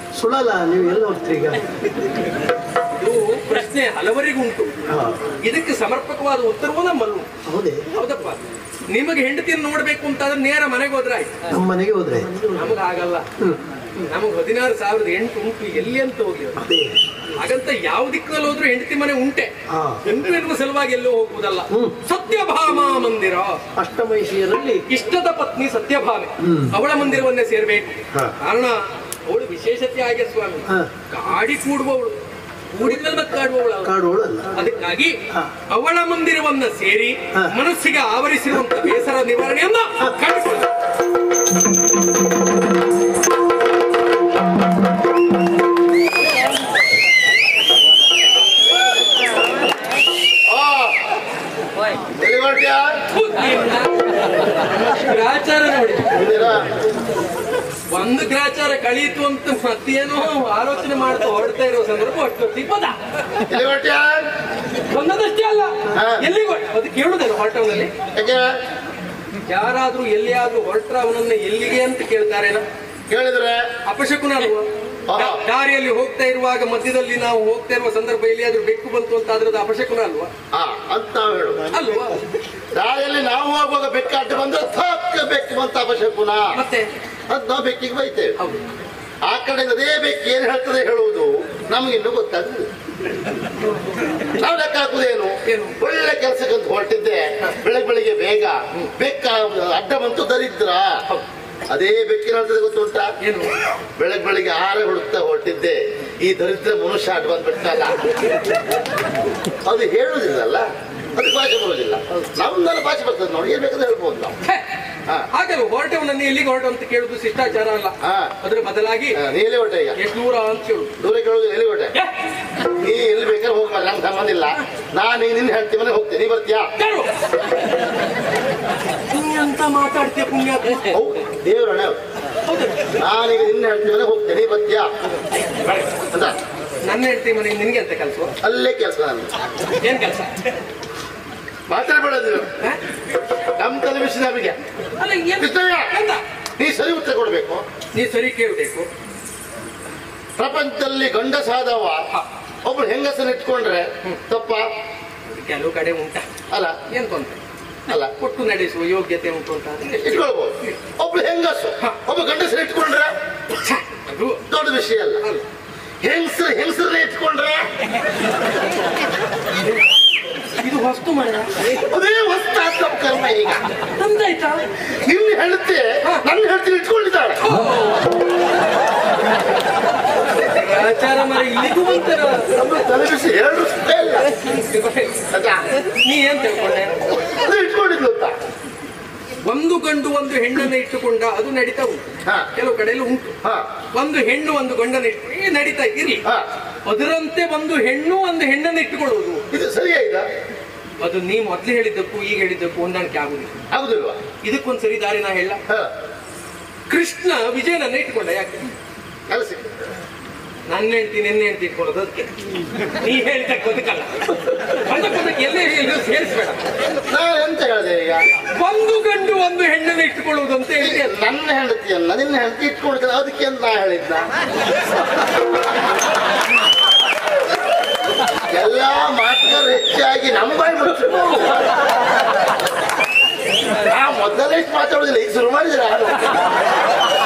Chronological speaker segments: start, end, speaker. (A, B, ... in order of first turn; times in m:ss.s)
0:00.2-0:01.8 A
0:02.9-0:04.8 B
0:04.9-0:05.2 A
0:05.4-0:07.3 B
0:07.5-0:07.8 A
0:07.9-0:11.3 B
0:11.5-0:12.7 A
0:12.5-0:13.2 B
0:14.0-0:16.6 B
0:16.6-0:17.0 A
0:17.3-0:19.5 B
0:19.7-0:20.0 A
0:20.0-0:23.6 B
0:23.8-0:24.8 A
0:24.9-0:32.2 B
0:26.4-0:26.7 A
0:32.7-0:34.0 B
0:33.8-0:34.7 A
0:34.5-0:35.2 B
0:35.7-0:40.7 B
0:50.5-0:51.1 C
0:52.2-0:52.9 C
0:53.1-0:56.2 B
0:56.1-0:56.7 C
0:57.9-1:03.0 B
1:03.5-1:04.3 C
1:04.9-1:07.9 B
1:05.9-1:06.3 C
1:08.1-1:08.5 C
1:09.5-1:12.6 B
1:13.1-1:13.6 C
1:13.9-1:20.3 B
1:15.1-1:15.4 C
1:20.5-1:21.7 C
1:21.7-1:22.2 B
1:22.7-1:26.6 C
1:26.5-1:26.9 B
1:27.3-1:28.4 C
1:29.3-1:32.7 C
1:33.7-1:34.1 B
1:34.4-1:41.0 C
1:35.4-1:35.8 B
1:41.7-1:43.1 C
1:43.2-1:43.5 B
1:44.0-1:48.0 C
1:49.7-1:54.4 C
1:54.4-1:54.7 B
1:55.3-1:59.2 B
1:58.0-1:58.3 C
1:59.2-2:00.0 C
2:00.0-2:00.9 B
2:01.0-2:01.9 C
2:02.8-2:06.7 C
2:06.8-2:07.1 B
2:09.1-2:11.0 B
2:10.9-2:12.0 C
2:12.5-2:12.9 B
2:13.0-2:14.9 C
2:16.1-2:16.4 C
2:16.8-2:18.3 B
2:18.4-2:19.3 C
2:19.8-2:20.3 B
2:21.7-2:22.5 C
2:23.6-2:24.6 C
2:25.0-2:26.2 B
2:25.4-2:25.9 C
2:26.6-2:27.6 C
2:27.9-2:28.9 B
2:30.4-2:32.0 C
2:32.6-2:34.7 C
2:35.3-2:36.3 B
2:36.5-2:36.8 C
2:36.9-2:37.4 B
2:38.1-2:40.8 B
2:39.9-2:43.1 C
2:43.6-2:44.4 B
2:44.5-2:45.2 C
2:46.0-2:47.6 C
2:50.6-2:51.6 B
2:51.7-2:53.6 C
2:53.9-2:54.6 B
2:55.0-2:57.4 C
2:57.4-2:58.1 B
3:00.4-3:02.5 B
3:02.5-3:04.3 C
3:04.4-3:05.2 B
3:05.3-3:05.6 C
3:05.9-3:07.0 B
3:07.2-3:08.3 C
3:09.4-3:12.0 B
3:12.6-3:13.4 B
3:13.9-3:16.2 B
3:16.9-3:19.4 B
3:19.5-3:20.2 C
3:21.0-3:23.6 B
3:23.7-3:24.2 C
3:24.4-3:25.6 B
3:26.9-3:28.8 B
3:29.3-3:29.8 C
3:30.7-3:32.3 B
3:32.9-3:36.6 B
3:37.1-3:38.2 C
3:38.6-3:41.2 B
3:40.8-3:44.3 C
3:48.5-3:51.6 C
3:53.9-3:56.4 C